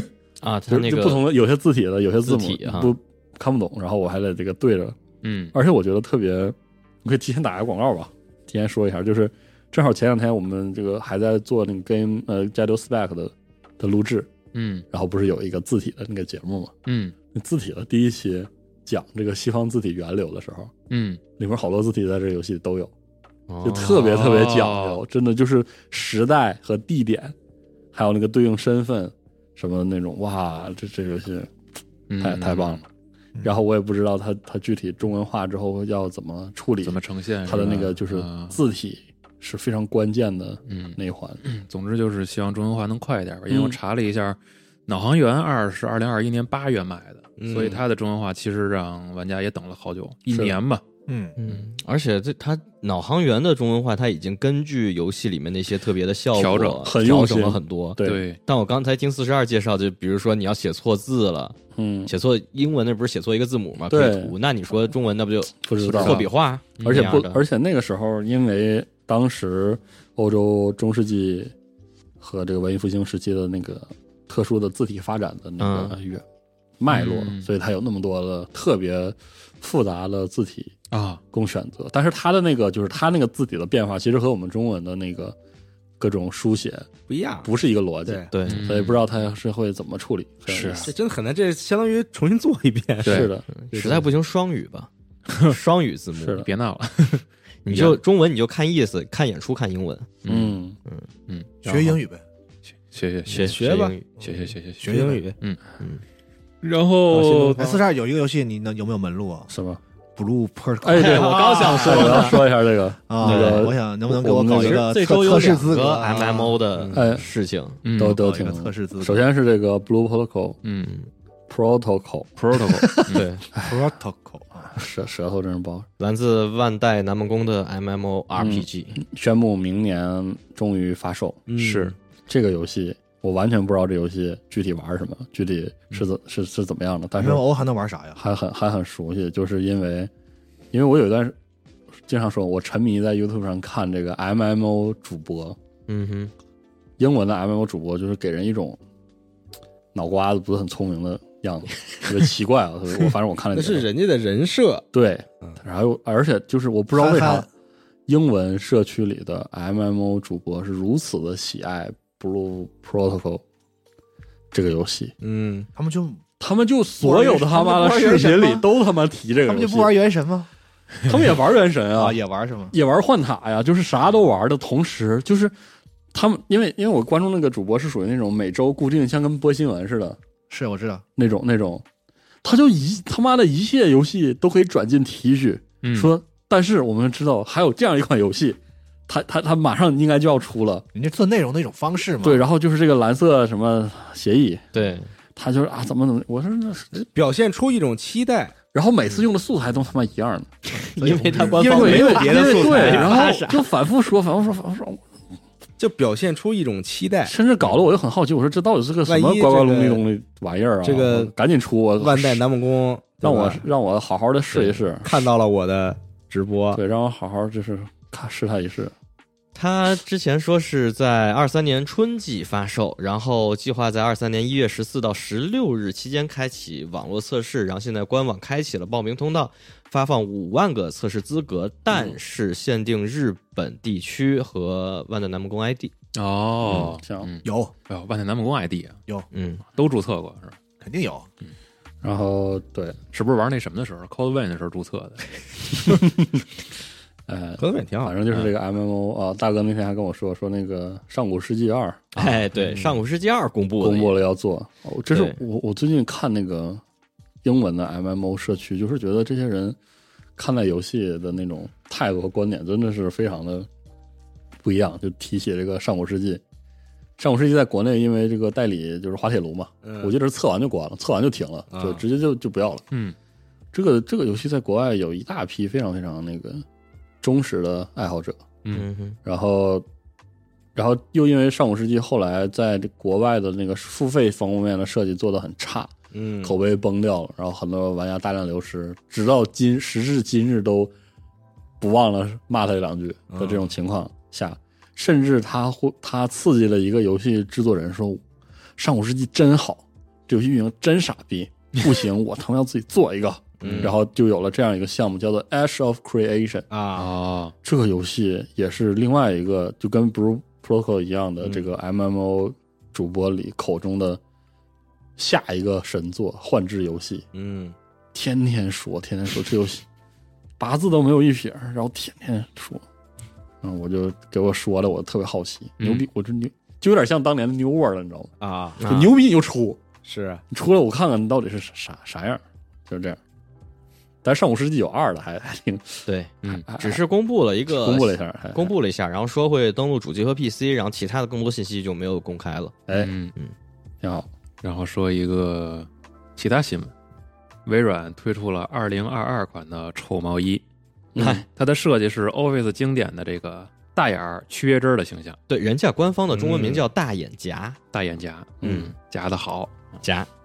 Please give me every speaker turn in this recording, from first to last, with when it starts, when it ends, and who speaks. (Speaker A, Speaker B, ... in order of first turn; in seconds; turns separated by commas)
Speaker A: 0.4-1.3, Speaker B: 0.7-5.0, Speaker A: 2.2-3.0, Speaker C: 5.2-5.5, Speaker B: 5.5-14.3, Speaker C: 14.5-14.8, Speaker B: 14.9-16.7, Speaker C: 16.9-17.1, Speaker B: 17.3-20.7, Speaker C: 20.9-21.2, Speaker B: 21.4-22.9, Speaker A: 23.5-24.0, Speaker B: 23.6-27.3, Speaker C: 23.8-25.0, Speaker B: 27.9-31.5, Speaker C: 32.1-32.8, Speaker B: 32.2-32.8, Speaker B: 33.4-41.4, Speaker C: 36.8-38.6, Speaker C: 40.7-50.8, Speaker B: 43.5-43.8, Speaker D: 47.4-47.8, Speaker B: 50.3-50.5, Speaker E: 51.1-51.4, Speaker A: 51.4-67.4, Speaker C: 56.3-56.9, Speaker B: 56.8-58.2, Speaker C: 58.0-58.4, Speaker B: 61.7-62.1, Speaker B: 63.9-64.3, Speaker B: 65.6-71.5, Speaker C: 66.8-67.2, Speaker B: 72.2-76.2, Speaker A: 75.6-76.0, Speaker B: 76.8-80.7, Speaker C: 76.9-77.5, Speaker C: 80.9-81.2, Speaker B: 81.3-85.3, Speaker B: 86.0-86.9, Speaker D: 87.1-87.5, Speaker B: 87.4-90.9, Speaker A: 88.3-88.7, Speaker C: 88.5-89.0, Speaker C: 90.5-90.9, Speaker D: 90.8-93.3, Speaker C: 93.0-93.3, Speaker B: 93.0-94.1, Speaker A: 93.5-94.9, Speaker A: 95.4-96.4, Speaker B: 96.2-96.5, Speaker C: 96.4-98.0, Speaker A: 97.6-100.2, Speaker C: 100.2-100.6, Speaker B: 100.3-100.8, Speaker C: 101.3-102.0, Speaker E: 101.6-102.2, Speaker C: 102.7-103.6, Speaker A: 103.3-104.2, Speaker D: 103.4-103.9, Speaker C: 104.2-105.6, Speaker E: 104.8-105.2, Speaker D: 104.8-105.3, Speaker C: 106.6-107.7, Speaker D: 107.1-107.8, Speaker E: 107.6-109.5, Speaker B: 109.5-109.8, Speaker E: 110.2-112.3, Speaker B: 110.8-115.6, Speaker A: 111.0-112.5, Speaker C: 111.3-111.7, Speaker E: 113.1-116.6, Speaker A: 113.2-113.7, Speaker A: 115.3-117.8, Speaker D: 116.7-117.1, Speaker B: 116.9-117.2, Speaker C: 117.8-118.2, Speaker B: 117.9-120.6, Speaker E: 118.0-119.2, Speaker C: 120.6-120.9, Speaker B: 121.5-123.8, Speaker C: 122.4-123.3, Speaker A: 123.1-123.5, Speaker E: 123.6-124.8, Speaker B: 124.7-125.8, Speaker A: 126.0-129.0, Speaker B: 128.3-131.5, Speaker D: 131.5-131.9, Speaker C: 131.6-131.9, Speaker B: 132.3-137.4, Speaker E: 137.2-138.2, Speaker B: 138.2-140.1, Speaker B: 140.7-141.3, Speaker B: 142.0-145.6, Speaker A: 145.9-146.3, Speaker B: 147.0-148.8, Speaker B: 149.9-153.9, Speaker D: 153.5-154.8, Speaker B: 154.9-157.5, Speaker E: 156.9-157.5, Speaker B: 158.1-163.4, Speaker B: 164.5-165.1, Speaker D: 165.2-165.7, Speaker E: 165.7-166.2, Speaker B: 166.4-169.9, Speaker E: 167.0-168.7, Speaker E: 169.4-170.5, Speaker B: 171.0-172.2, Speaker E: 171.9-172.7, Speaker B: 172.7-175.5, Speaker B: 176.1-180.2, Speaker E: 180.5-181.0, Speaker B: 181.2-181.8, Speaker B: 182.4-190.8, Speaker C: 185.8-186.1, Speaker E: 190.9-192.5, Speaker B: 192.2-194.7, Speaker A: 194.7-195.1, Speaker B: 195.3-197.0, Speaker D: 196.9-198.6, Speaker B: 198.7-200.6, Speaker A: 200.8-203.7, Speaker E: 200.8-202.2, Speaker D: 201.1-203.3, Speaker B: 201.6-205.0, Speaker D: 205.8-207.3, Speaker B: 207.2-212.4, Speaker D: 209.1-210.0, Speaker D: 210.8-211.3, Speaker D: 212.0-213.7, Speaker B: 213.2-215.1, Speaker D: 214.6-216.8, Speaker B: 216.7-218.9, Speaker A: 219.5-235.9, Speaker B: 231.9-232.2, Speaker C: 236.1-239.0, Speaker B: 236.7-237.3, Speaker E: 237.4-237.7, Speaker A: 239.3-239.6, Speaker C: 239.7-240.6, Speaker E: 240.8-241.3, Speaker B: 242.0-243.0, Speaker C: 243.1-245.3, Speaker B: 245.9-246.4, Speaker B: 247.3-252.2, Speaker D: 247.6-248.2, Speaker A: 252.1-254.2, Speaker B: 253.8-256.8, Speaker A: 255.1-255.4, Speaker B: 257.4-259.8, Speaker B: 260.4-263.7, Speaker B: 264.6-266.4, Speaker B: 267.2-272.8, Speaker D: 269.8-270.1, Speaker D: 271.7-272.0, Speaker B: 273.7-276.6, Speaker B: 277.2-278.4, Speaker A: 278.7-279.2, Speaker B: 279.2-279.8, Speaker B: 280.7-290.9, Speaker D: 286.1-286.6, Speaker B: 291.8-298.2, Speaker D: 293.3-293.7, Speaker B: 298.8-306.7, Speaker D: 303.6-304.0, Speaker D: 306.7-307.1, Speaker C: 306.9-307.5, Speaker B: 307.6-314.2, Speaker B: 315.2-317.2, Speaker D: 317.3-317.8, Speaker B: 318.1-319.8, Speaker B: 320.6-322.8, Speaker B: 323.6-329.8, Speaker C: 325.8-326.1, Speaker D: 328.4-328.8, Speaker A: 328.8-329.1, Speaker D: 330.0-330.4, Speaker B: 330.5-333.2, Speaker B: 334.2-336.0, Speaker A: 336.1-342.8, Speaker B: 336.7-337.0, Speaker B: 337.7-338.7, Speaker C: 342.9-343.3, Speaker B: 344.0-344.3, Speaker C: 344.6-346.9, Speaker C: 347.6-350.6, Speaker B: 351.1-351.4, Speaker A: 351.2-351.4, Speaker C: 351.5-355.4, Speaker A: 355.5-357.8, Speaker C: 356.3-356.9, Speaker C: 357.9-359.9, Speaker A: 358.6-358.9, Speaker A: 360.0-360.3